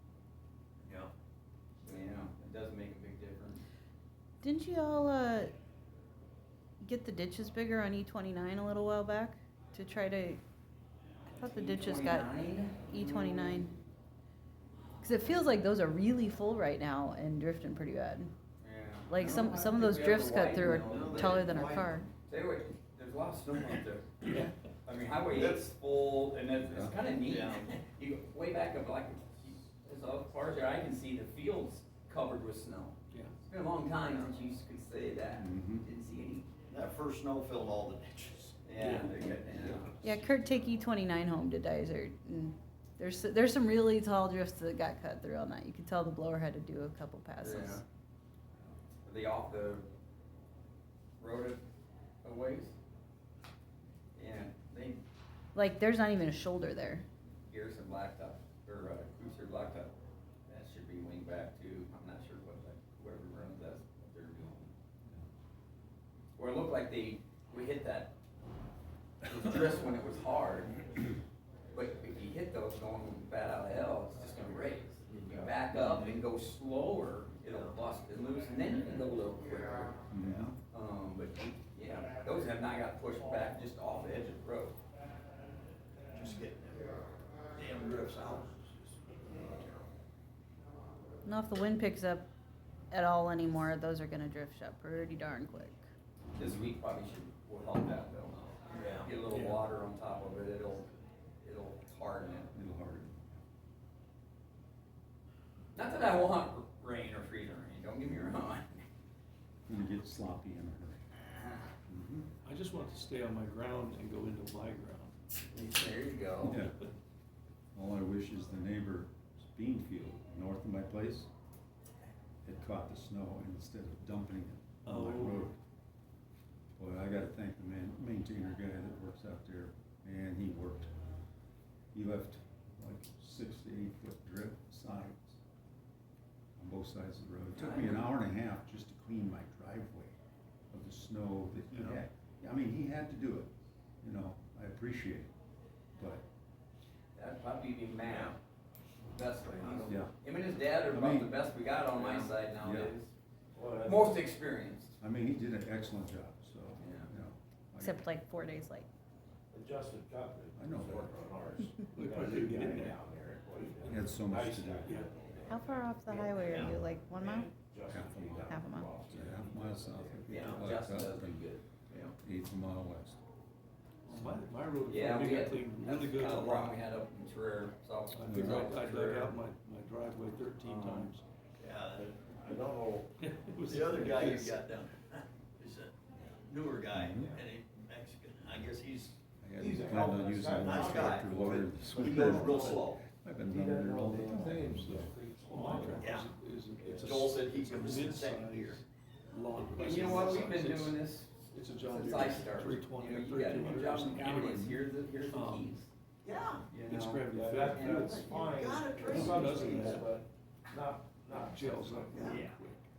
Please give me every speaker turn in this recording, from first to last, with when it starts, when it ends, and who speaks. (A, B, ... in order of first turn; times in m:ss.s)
0:01.8-0:03.6 A
0:04.4-0:05.5 B
0:06.8-0:10.4 B
0:11.4-0:13.7 B
0:11.4-0:13.6 A
0:15.0-0:18.3 B
0:18.6-0:21.5 A
0:19.1-0:22.1 B
0:19.2-0:19.6 C
0:20.7-0:22.1 C
0:22.2-0:24.3 A
0:24.2-0:24.5 D
0:24.8-0:36.5 A
0:25.3-0:25.7 C
0:26.6-0:27.0 E
0:27.2-0:27.8 C
0:35.3-0:35.8 E
0:36.7-0:38.6 C
0:38.6-0:40.1 A
0:38.8-0:39.3 D
0:40.0-0:47.8 B
0:47.4-0:47.8 A
0:49.0-0:49.8 A
0:51.2-0:51.6 A
0:52.2-0:52.7 A
0:54.1-0:55.0 A
0:55.5-0:57.0 B
0:57.5-1:04.7 A
1:06.4-1:08.1 A
1:09.2-1:11.1 A
1:11.7-1:20.0 A
1:15.2-1:15.9 C
1:17.5-1:17.8 C
1:20.1-1:20.6 E
1:20.2-1:20.5 C
1:20.7-1:24.8 A
1:26.1-1:29.9 C
1:31.2-1:32.3 B
1:32.9-1:35.9 B
1:36.3-1:42.5 A
1:36.4-1:36.7 E
1:38.7-1:39.1 C
1:39.3-1:39.6 D
1:42.5-1:43.3 E
1:45.7-1:48.8 A
1:49.7-1:51.1 E
1:51.9-1:52.3 E
1:52.4-1:55.2 D
1:55.4-1:56.6 A
1:56.4-1:56.8 E
1:57.7-2:01.3 E
2:02.4-2:05.6 E
2:04.8-2:05.5 D
2:06.8-2:10.9 E
2:11.9-2:15.4 E
2:16.6-2:20.2 E
2:17.5-2:18.0 A
2:20.7-2:25.3 E
2:26.0-2:26.2 E
2:27.1-2:28.4 A
2:28.0-2:28.3 C
2:29.1-2:33.1 A
2:29.4-2:30.0 C
2:29.8-2:30.1 E
2:30.9-2:31.3 E
2:32.3-2:32.9 E
2:33.5-2:34.3 F
2:33.8-2:34.9 A
2:35.0-2:38.1 E
2:36.8-2:37.1 A
2:37.8-2:38.9 B
2:39.5-2:50.6 F
2:40.5-2:41.2 E
2:41.9-2:43.0 D
2:43.8-2:44.2 D
2:43.9-2:45.0 E
2:44.8-2:45.1 D
2:45.5-2:47.5 B
2:47.9-2:51.5 E
2:48.4-2:48.9 B
2:50.3-2:52.2 A
2:52.2-2:53.2 E
2:54.0-2:56.8 D
2:54.1-2:54.4 E
2:54.9-2:59.3 A
2:58.1-3:01.2 D
2:58.3-2:58.6 E
3:01.6-3:02.1 C
3:01.9-3:03.1 F
3:03.2-3:04.6 D
3:03.6-3:09.2 C
3:06.9-3:07.4 E
3:09.4-3:15.1 E
3:09.6-3:12.8 F
3:10.6-3:13.0 C
3:12.2-3:12.6 D
3:13.4-3:16.2 F
3:14.8-3:25.7 D
3:16.0-3:16.2 C
3:16.8-3:17.2 F
3:16.9-3:18.8 C
3:19.7-3:21.3 A
3:21.8-3:25.9 A
3:26.2-3:26.6 C
3:26.7-3:27.2 A
3:26.8-3:28.3 D
3:27.3-3:32.5 F
3:27.7-3:29.9 C
3:29.0-3:30.1 D
3:29.1-3:29.6 E
3:31.3-3:32.8 D
3:32.1-3:32.4 C